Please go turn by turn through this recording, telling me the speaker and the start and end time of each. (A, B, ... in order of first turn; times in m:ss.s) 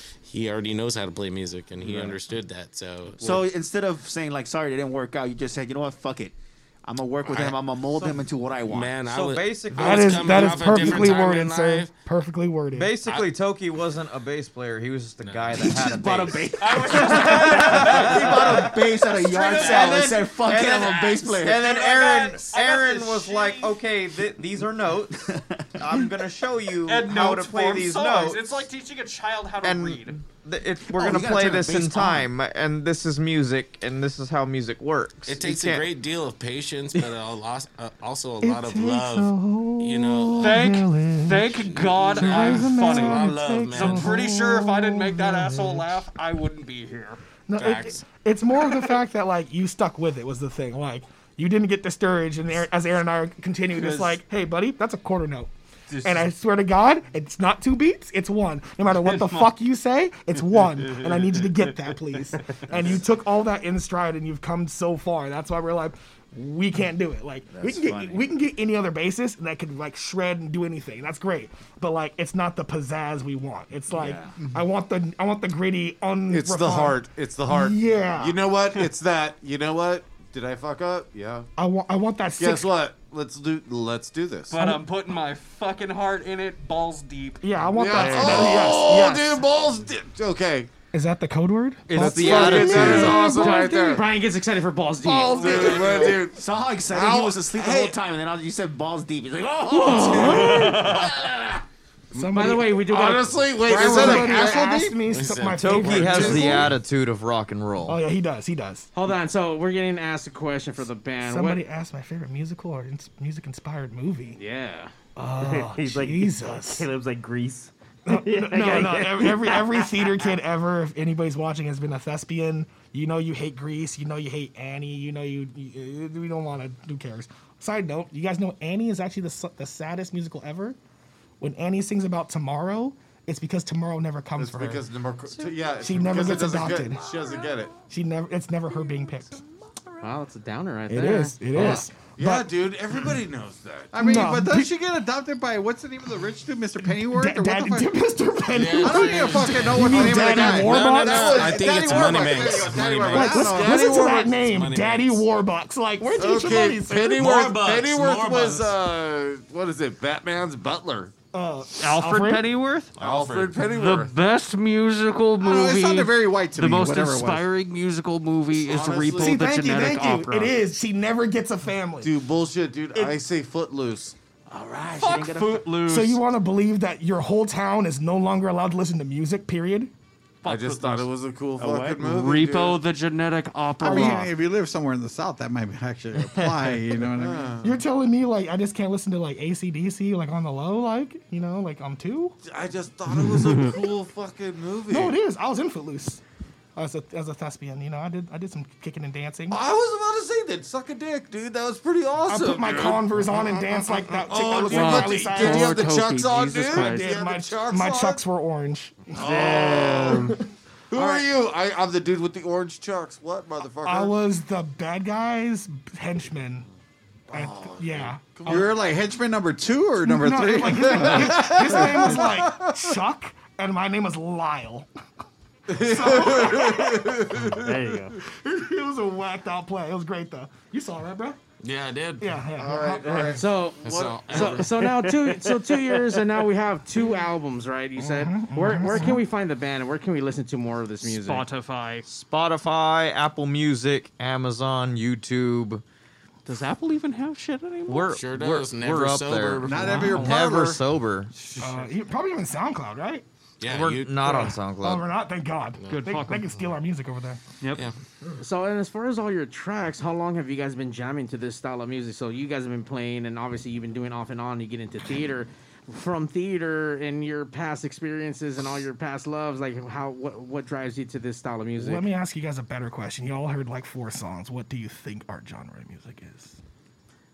0:00.2-0:03.5 A
0:01.8-0:02.2 B
0:03.2-0:09.0 B
0:07.2-0:07.6 A
0:08.7-0:11.9 A
0:09.1-0:11.2 C
0:09.7-0:13.0 D
0:12.7-0:18.7 C
0:13.0-0:13.3 A
0:15.2-0:15.7 A
0:15.5-0:21.8 B
0:16.6-0:20.3 E
0:19.4-0:21.3 A
0:19.6-0:28.6 C
0:21.5-0:23.8 E
0:26.8-0:30.2 E
0:29.6-0:35.8 C
0:30.9-0:32.3 B
0:35.3-0:40.7 A
0:38.4-0:46.0 D
0:40.4-0:47.2 E
0:41.6-0:44.2 A
0:47.5-0:55.5 D
0:47.6-0:48.0 A
0:53.7-0:54.2 E
0:55.9-0:56.3 E
0:56.0-1:18.4 D
0:59.0-0:59.5 E
1:00.8-1:01.6 E
1:07.5-1:08.3 B
1:13.9-1:14.3 B
1:16.3-1:21.5 F
1:21.6-1:22.7 D
1:22.4-1:24.6 F
1:24.5-1:27.4 E
1:24.5-1:24.8 D
1:27.4-1:29.4 D
1:27.7-1:30.7 F
1:30.9-1:33.6 D
1:31.9-1:33.2 C
1:31.9-1:34.0 F
1:32.8-1:35.8 G
1:35.0-1:38.0 F
1:35.4-1:36.0 D
1:35.5-1:41.0 B
1:39.7-1:40.7 G
1:39.8-1:41.0 F
1:39.9-1:40.9 D
1:42.1-1:42.8 D
1:42.1-1:45.0 F
1:42.3-1:43.4 G
1:43.6-1:46.7 D
1:43.7-1:44.5 H
1:45.0-1:46.6 A
1:45.5-1:48.0 C
1:46.0-1:46.7 F
1:47.8-1:48.9 D
1:48.9-1:51.6 G
1:51.2-1:54.4 D
1:54.3-1:54.9 G
1:55.2-1:56.9 D
1:55.4-2:00.0 I
1:58.1-2:10.8 D
2:11.4-2:14.8 D
2:14.4-2:17.8 F
2:15.8-2:17.0 D
2:17.9-2:19.4 D
2:20.0-2:21.8 G
2:20.9-2:22.5 D
2:21.5-2:24.0 F
2:23.9-2:27.9 H
2:24.0-2:24.7 D
2:26.8-2:31.6 D
2:28.5-2:35.2 A
2:28.8-2:31.0 H
2:30.0-2:34.4 F
2:31.7-2:32.4 H
2:31.8-2:33.0 B
2:33.1-2:37.2 D
2:33.3-2:33.8 H
2:36.0-2:41.1 F
2:37.1-2:38.8 A
2:41.3-2:42.5 D
2:41.7-2:43.0 E
2:43.0-2:44.1 F
2:43.0-2:43.5 C
2:43.5-2:50.6 E
2:45.4-2:47.5 H
2:48.5-2:49.5 F
2:49.1-2:52.1 D
2:52.0-2:54.1 F
2:54.5-2:55.8 B
2:54.9-2:56.2 E
2:55.8-2:59.9 D
3:00.4-3:01.1 E
3:00.4-3:02.8 F
3:01.6-3:02.1 B
3:02.0-3:04.3 E
3:03.8-3:07.7 H
3:07.1-3:07.8 F
3:07.6-3:12.4 D
3:12.4-3:15.1 F
3:14.9-3:16.2 D
3:16.8-3:19.6 D
3:19.5-3:28.2 F
3:22.2-3:25.9 D
3:24.6-3:27.2 E
3:26.6-3:30.4 D
3:29.1-3:30.3 F
3:29.2-3:30.3 I
3:30.9-3:34.2 F
3:33.8-3:36.6 D
3:37.3-3:38.8 F
3:37.3-3:38.6 D
3:38.4-3:42.2 H
3:40.0-3:44.9 D
3:40.8-3:42.7 F
3:45.7-3:47.8 F
3:45.7-3:47.0 D
3:47.4-3:48.2 I
3:48.3-3:51.4 D
3:51.6-3:52.3 A
3:52.2-3:53.4 D
3:52.5-3:54.6 F
3:53.3-4:01.4 G
3:53.8-3:54.7 A
3:54.8-3:56.2 I
3:58.0-3:59.2 D
4:01.0-4:02.0 E
4:02.1-4:05.8 C
4:06.4-4:08.1 E
4:07.9-4:11.3 C
4:08.1-4:10.1 A
4:09.6-4:10.8 H
4:09.8-4:10.2 E
4:11.6-4:13.2 D
4:13.6-4:14.5 A
4:13.6-4:15.0 C
4:14.2-4:17.4 D
4:15.8-4:16.2 A
4:15.9-4:16.6 E
4:17.6-4:17.8 E
4:18.4-4:32.0 G
4:31.8-4:36.6 D